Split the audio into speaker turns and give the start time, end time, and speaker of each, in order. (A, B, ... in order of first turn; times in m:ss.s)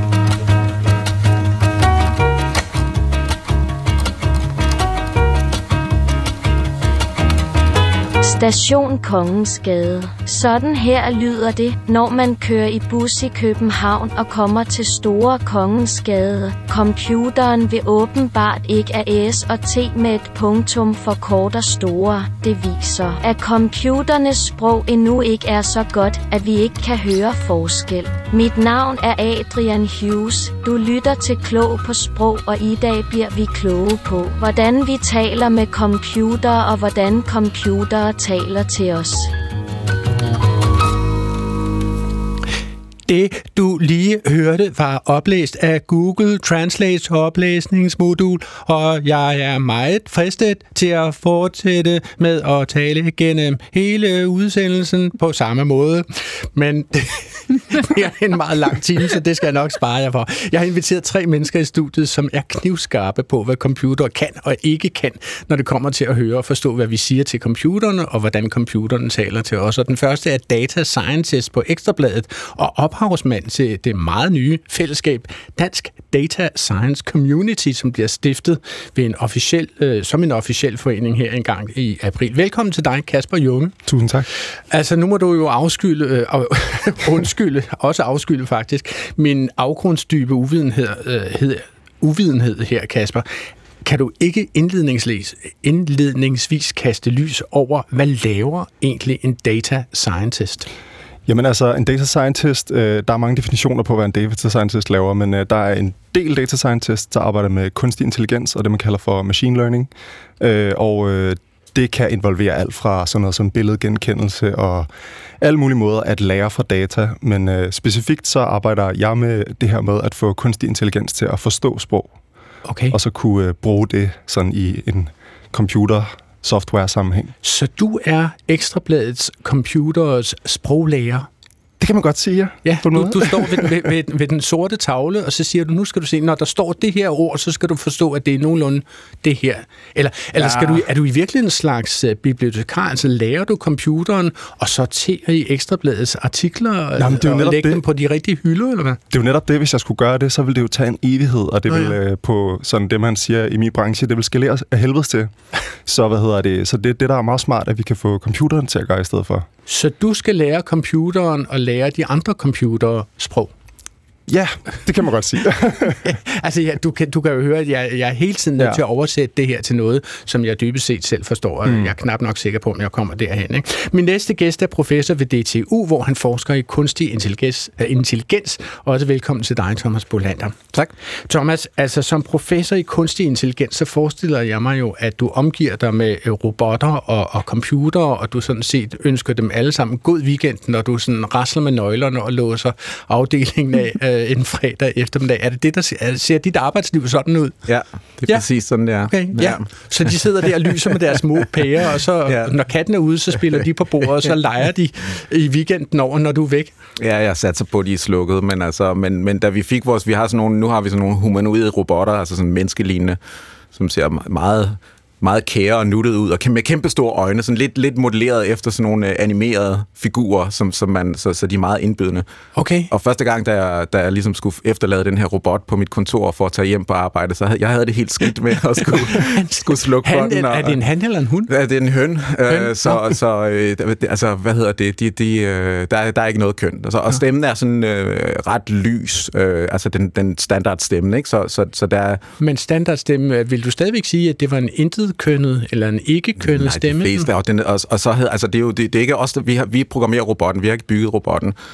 0:08.2-0:39.3 A
0:43.1-1:23.8 B
1:23.9-1:24.3 C
1:24.5-1:33.2 B
1:33.8-1:40.7 B
1:41.3-1:54.9 C
1:55.4-2:02.1 C
2:02.6-2:03.0 B
2:02.9-2:07.3 C
2:07.4-2:11.3 B
2:11.8-2:13.9 C
2:12.6-2:29.0 B
2:20.4-2:20.8 C
2:27.0-2:27.8 C
2:29.1-2:39.5 C
2:31.7-2:32.0 B
2:39.7-2:43.5 B
2:44.3-2:46.1 C
2:46.0-3:00.6 B
2:51.6-2:51.9 C
3:01.3-3:17.6 B
3:17.6-3:20.5 D
3:18.3-3:26.7 B
3:22.2-3:22.5 D
3:27.0-3:33.2 D
3:33.7-3:42.2 D
3:42.6-3:42.9 B
3:42.9-3:50.8 D
3:49.0-3:51.5 B
3:51.5-4:02.2 D
3:52.5-3:53.0 B
4:02.4-4:07.3 B
4:06.4-4:11.5 D